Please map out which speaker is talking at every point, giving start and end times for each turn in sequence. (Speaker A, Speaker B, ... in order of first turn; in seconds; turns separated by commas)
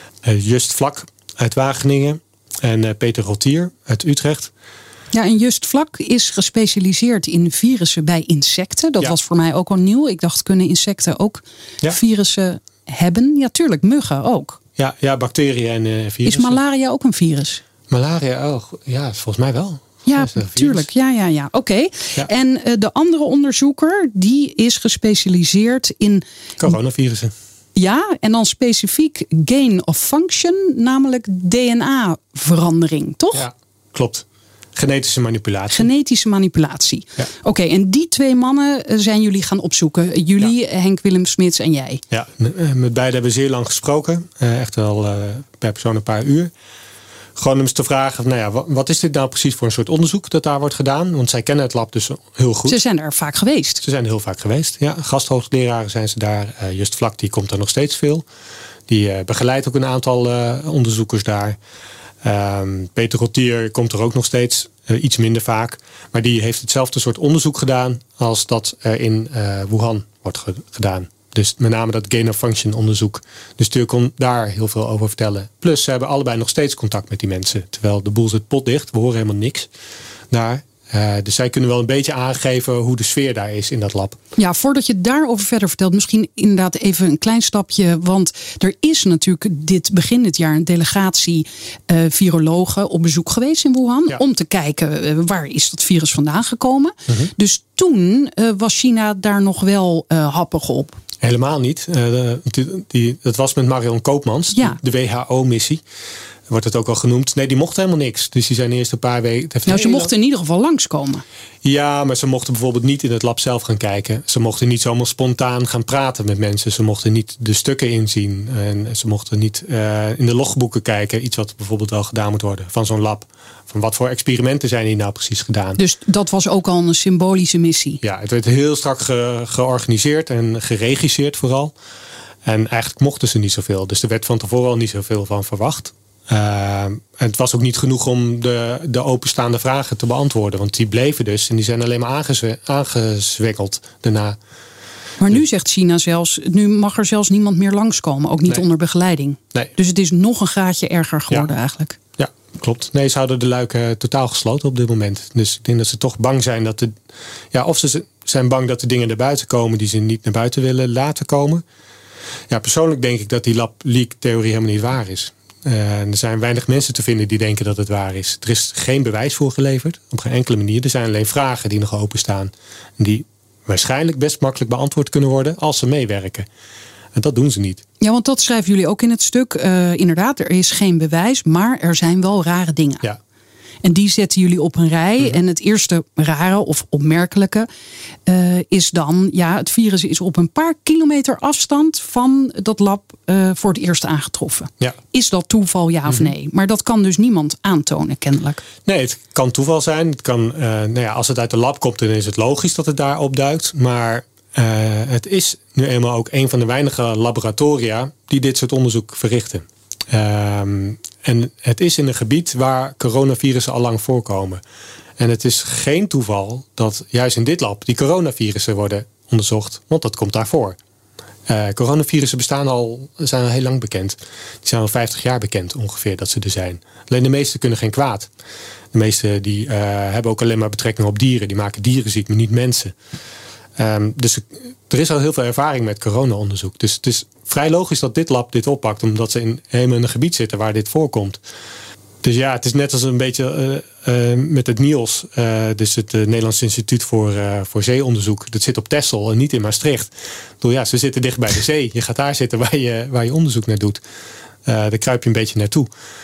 Speaker A: 0.2-4.5, Speaker B: 5.1-14.6, Speaker A: 14.8-16.6, Speaker B: 16.2-17.6, Speaker A: 17.9-20.9, Speaker B: 20.1-26.7, Speaker A: 26.6-27.3, Speaker B: 27.8-33.5, Speaker A: 33.3-35.9, Speaker B: 35.7-42.0, Speaker A: 42.1-46.5, Speaker A: 47.4-52.8, Speaker B: 52.7-53.8, Speaker A: 53.8-58.2, Speaker A: 58.9-61.6, Speaker A: 62.2-79.7, Speaker A: 80.3-84.2, Speaker B: 84.4-101.0, Speaker A: 101.2-105.8, Speaker B: 104.5-104.8, Speaker A: 106.5-110.1, Speaker B: 109.7-111.2, Speaker A: 111.6-125.8, Speaker B: 125.8-128.0, Speaker A: 128.0-131.7, Speaker A: 132.4-144.4, Speaker B: 145.2-152.0, Speaker A: 152.2-157.0, Speaker A: 157.5-161.6, Speaker A: 162.5-176.5, Speaker A: 177.1-177.8, Speaker B: 178.0-183.1, Speaker B: 183.8-187.7, Speaker B: 188.3-198.6, Speaker A: 198.8-214.6, Speaker A: 215.2-220.8, Speaker A: 221.5-228.3, Speaker A: 228.9-232.9, Speaker A: 233.8-241.4, Speaker A: 242.2-254.0, Speaker A: 254.7-255.9